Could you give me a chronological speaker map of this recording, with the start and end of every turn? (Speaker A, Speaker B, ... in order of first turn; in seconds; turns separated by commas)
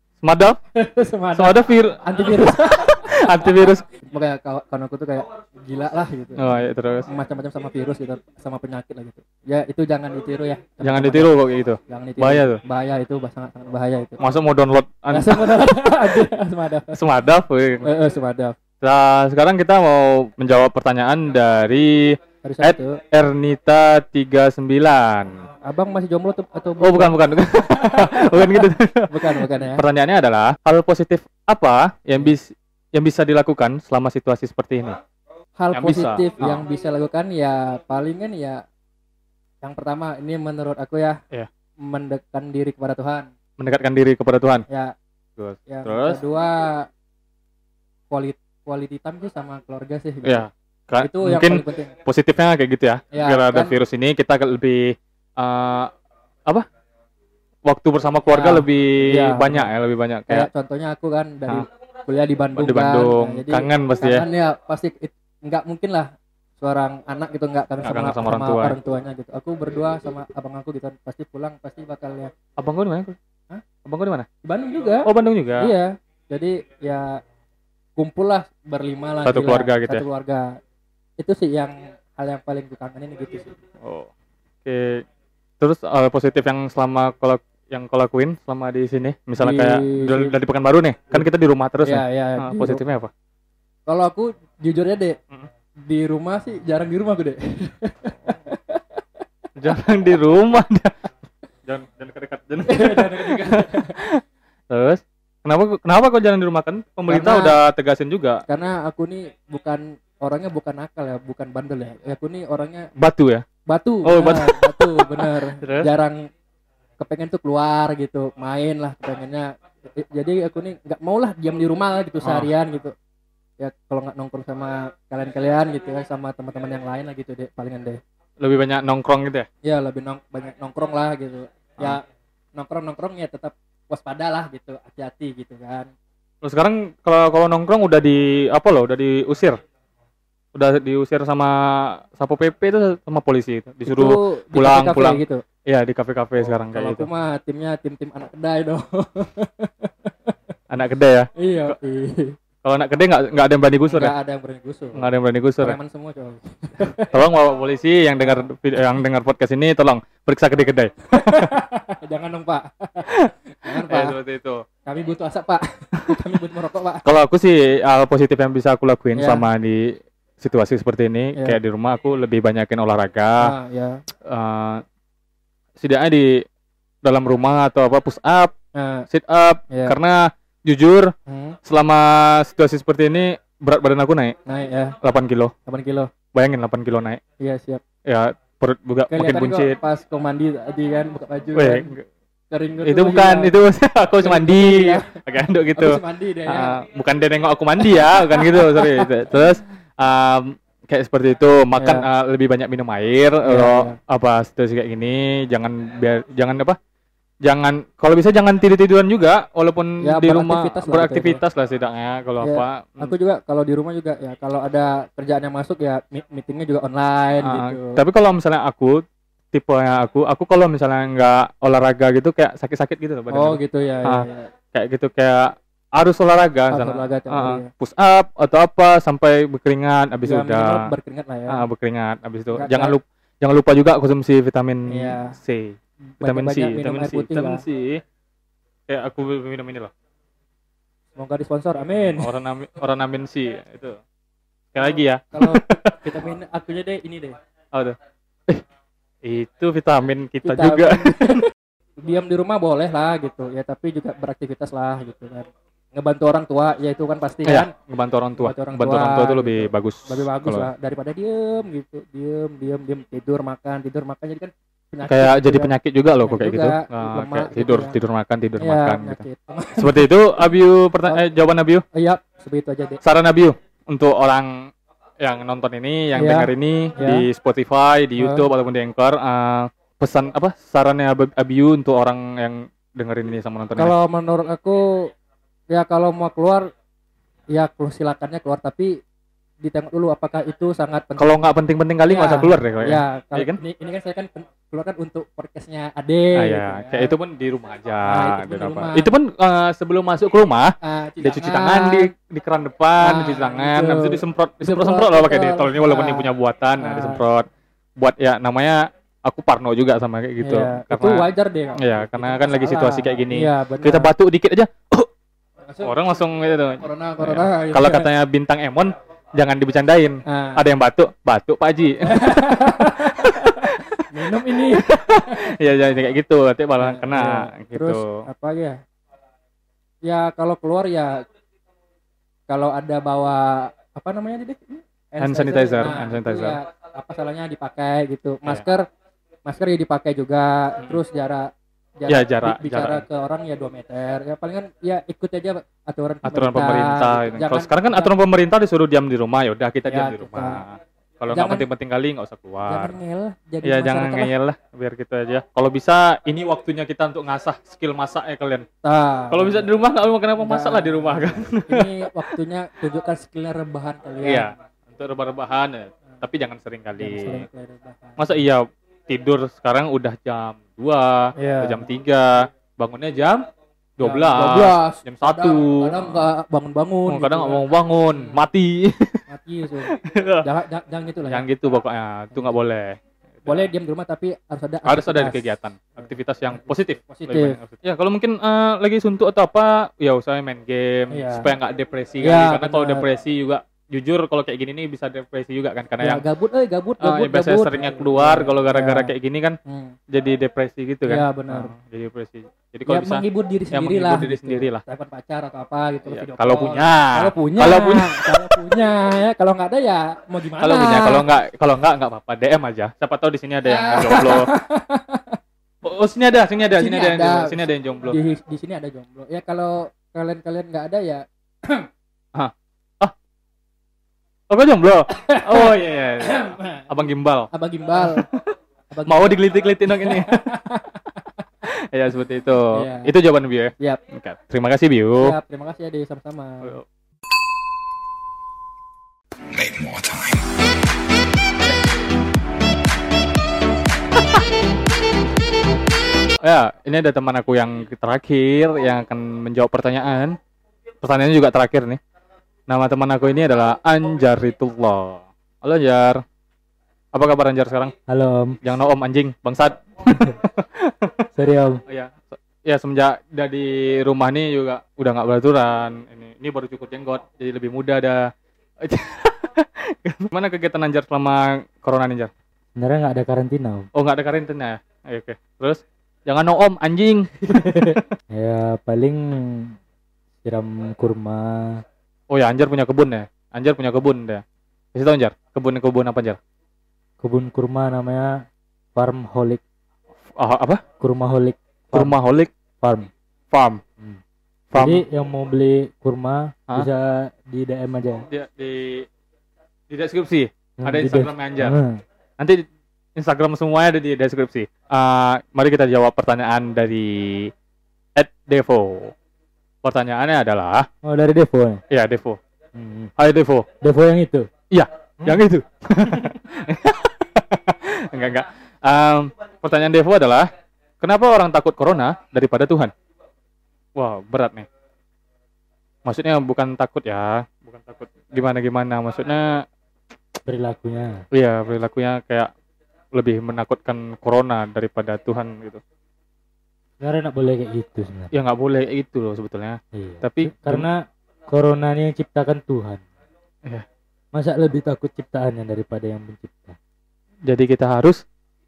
Speaker A: 0.2-0.6, Speaker B: 0.7-11.3, Speaker A: 1.3-3.8, Speaker A: 6.4-7.1, Speaker A: 10.8-12.6, Speaker B: 11.9-14.2, Speaker A: 14.2-16.2, Speaker B: 15.1-17.0, Speaker A: 16.9-17.9, Speaker B: 17.8-18.6, Speaker A: 18.8-25.4, Speaker B: 22.4-23.0, Speaker B: 25.6-29.8, Speaker A: 26.8-35.0, Speaker B: 35.6-38.6, Speaker A: 35.7-36.6, Speaker B: 39.6-41.2, Speaker B: 41.8-43.3, Speaker A: 43.6-44.6, Speaker B: 44.7-44.9, Speaker A: 45.4-46.2, Speaker B: 45.6-46.9, Speaker B: 48.1-50.5, Speaker A: 50.2-55.9, Speaker B: 51.0-51.9, Speaker B: 53.1-53.7, Speaker A: 57.6-60.5, Speaker B: 58.3-59.7, Speaker B: 60.3-72.3, Speaker A: 62.6-64.2, Speaker A: 67.8-68.8, Speaker A: 72.6-73.2, Speaker A: 73.8-74.3, Speaker B: 74.4-75.1, Speaker A: 75.0-75.7, Speaker B: 75.6-77.2, Speaker B: 78.0-80.6, Speaker A: 79.2-80.0, Speaker B: 81.2-83.5, Speaker A: 83.8-84.1, Speaker A: 84.6-85.0, Speaker A: 85.6-93.1, Speaker B: 89.4-90.3, Speaker B: 91.8-92.8, Speaker B: 93.9-95.2, Speaker B: 95.8-99.0, Speaker A: 99.6-100.9, Speaker A: 101.7-108.4, Speaker B: 102.7-104.0, Speaker B: 107.1-107.6, Speaker B: 108.5-112.9, Speaker A: 113.0-113.4, Speaker B: 113.7-116.3, Speaker A: 114.0-115.9, Speaker B: 117.0-122.9, Speaker A: 122.2-122.5, Speaker B: 123.6-128.0, Speaker A: 128.4-129.5, Speaker B: 129.6-132.0, Speaker B: 132.5-135.9, Speaker A: 136.4-139.6, Speaker A: 140.5-147.1, Speaker B: 143.8-145.4, Speaker B: 146.7-150.3, Speaker A: 150.7-151.7, Speaker B: 151.4-152.3, Speaker A: 152.6-154.1, Speaker B: 153.9-155.1, Speaker A: 154.9-155.8, Speaker B: 155.6-157.2, Speaker A: 157.0-161.5, Speaker B: 161.1-164.2, Speaker A: 163.1-164.6, Speaker B: 164.8-167.0, Speaker A: 167.0-169.8, Speaker B: 169.2-169.4, Speaker A: 170.4-173.5, Speaker B: 173.4-174.0, Speaker A: 174.3-174.8, Speaker A: 175.8-176.4, Speaker A: 177.0-178.5, Speaker B: 178.7-179.1, Speaker A: 179.1-181.1, Speaker B: 179.7-179.9, Speaker B: 181.3-181.6, Speaker A: 181.7-184.3, Speaker B: 184.5-184.9, Speaker A: 185.0-185.5, Speaker B: 185.7-186.1, Speaker A: 186.3-187.2, Speaker B: 187.4-187.8, Speaker A: 188.1-189.8, Speaker B: 189.1-191.8, Speaker A: 191.6-192.0, Speaker B: 192.5-193.5, Speaker A: 192.8-206.8, Speaker B: 194.2-195.2, Speaker B: 195.7-196.8, Speaker B: 197.8-199.3, Speaker B: 201.8-202.1, Speaker B: 203.4-204.0, Speaker A: 207.4-213.1, Speaker B: 210.0-211.4, Speaker B: 212.4-218.0, Speaker A: 217.4-230.9, Speaker B: 223.3-224.5, Speaker B: 226.7-227.7, Speaker B: 230.2-231.6, Speaker A: 231.5-238.0, Speaker B: 232.5-232.9, Speaker B: 234.9-235.3, Speaker B: 236.2-237.6, Speaker A: 238.9-239.9, Speaker B: 241.2-242.3, Speaker A: 242.2-244.0, Speaker A: 244.7-246.1, Speaker B: 245.3-247.4, Speaker A: 249.2-251.5, Speaker B: 250.4-251.5, Speaker B: 252.0-257.7, Speaker A: 257.4-260.7, Speaker B: 258.4-265.7, Speaker A: 265.1-269.2, Speaker B: 266.2-267.9, Speaker B: 268.6-270.1, Speaker A: 269.8-271.8, Speaker B: 271.9-273.0, Speaker A: 273.0-274.7, Speaker A: 275.2-283.9, Speaker B: 276.1-277.3, Speaker B: 278.2-278.5, Speaker B: 283.8-285.1, Speaker B: 285.7-286.7, Speaker B: 287.5-289.0, Speaker B: 289.6-291.5, Speaker A: 291.2-293.6, Speaker B: 292.1-297.1, Speaker A: 296.4-315.1, Speaker B: 298.0-299.1, Speaker B: 300.8-302.1, Speaker B: 303.0-307.2, Speaker B: 310.4-314.1, Speaker B: 315.7-316.0, Speaker A: 315.8-328.2, Speaker B: 316.8-318.1, Speaker B: 320.2-320.6, Speaker B: 322.1-325.4, Speaker B: 326.8-328.8, Speaker B: 330.0-331.2, Speaker B: 332.5-338.9, Speaker A: 335.2-336.6, Speaker B: 339.4-348.1, Speaker A: 342.1-343.0, Speaker A: 346.2-352.9, Speaker B: 349.9-350.6, Speaker B: 351.3-351.6, Speaker B: 352.7-354.3, Speaker A: 353.6-358.6, Speaker B: 358.8-359.7, Speaker A: 359.3-362.2, Speaker B: 360.4-364.5, Speaker A: 364.2-367.4, Speaker B: 367.0-368.4, Speaker A: 368.2-376.3, Speaker B: 371.4-371.8, Speaker B: 374.0-378.4, Speaker A: 377.1-379.2, Speaker B: 379.3-381.4, Speaker A: 379.9-380.4, Speaker A: 381.3-383.7, Speaker B: 382.3-382.6, Speaker B: 383.4-387.6, Speaker A: 384.9-396.2, Speaker B: 391.1-391.5, Speaker B: 392.2-393.1, Speaker B: 396.0-399.1, Speaker A: 397.0-399.6, Speaker B: 399.6-399.9, Speaker A: 400.1-404.8, Speaker B: 401.1-401.7, Speaker B: 402.9-411.3, Speaker A: 406.1-408.7, Speaker A: 410.6-414.5, Speaker B: 413.6-415.4, Speaker A: 415.8-418.2, Speaker B: 416.7-421.9, Speaker A: 422.3-423.1, Speaker A: 424.5-428.5, Speaker B: 425.1-426.9, Speaker B: 427.5-428.2, Speaker B: 428.9-431.2, Speaker A: 429.1-430.4, Speaker A: 431.6-435.4, Speaker B: 432.7-433.1, Speaker B: 435.2-436.8, Speaker A: 439.5-440.4, Speaker A: 446.4-450.4, Speaker A: 451.0-452.0, Speaker A: 452.7-456.2, Speaker A: 457.1-457.9, Speaker C: 458.1-458.6, Speaker A: 458.6-461.3, Speaker C: 461.4-461.8, Speaker A: 461.9-472.3, Speaker C: 472.8-473.9, Speaker A: 473.9-478.1, Speaker C: 477.5-479.8, Speaker C: 480.4-481.8, Speaker A: 482.3-484.4, Speaker A: 484.9-486.4, Speaker C: 487.2-488.4, Speaker C: 488.9-489.6, Speaker A: 490.4-490.8, Speaker C: 491.0-492.1, Speaker A: 491.9-492.5, Speaker C: 492.8-493.1, Speaker A: 493.5-493.8, Speaker A: 494.7-495.0, Speaker C: 494.7-498.3, Speaker A: 498.3-499.1, Speaker A: 499.9-501.8, Speaker C: 500.8-502.0, Speaker A: 502.4-502.6, Speaker A: 503.1-507.5, Speaker A: 508.2-509.1, Speaker A: 509.8-510.9, Speaker C: 511.0-511.8, Speaker A: 511.9-512.4, Speaker C: 512.7-513.1, Speaker A: 513.2-513.7, Speaker C: 513.8-514.5, Speaker A: 514.7-520.5, Speaker A: 521.0-522.9, Speaker A: 524.0-524.7, Speaker A: 526.0-529.6, Speaker C: 530.5-531.2, Speaker A: 531.3-532.5, Speaker A: 533.1-535.8, Speaker C: 537.0-538.3, Speaker A: 538.3-540.9, Speaker C: 539.9-543.0, Speaker C: 544.3-546.7, Speaker A: 547.5-548.2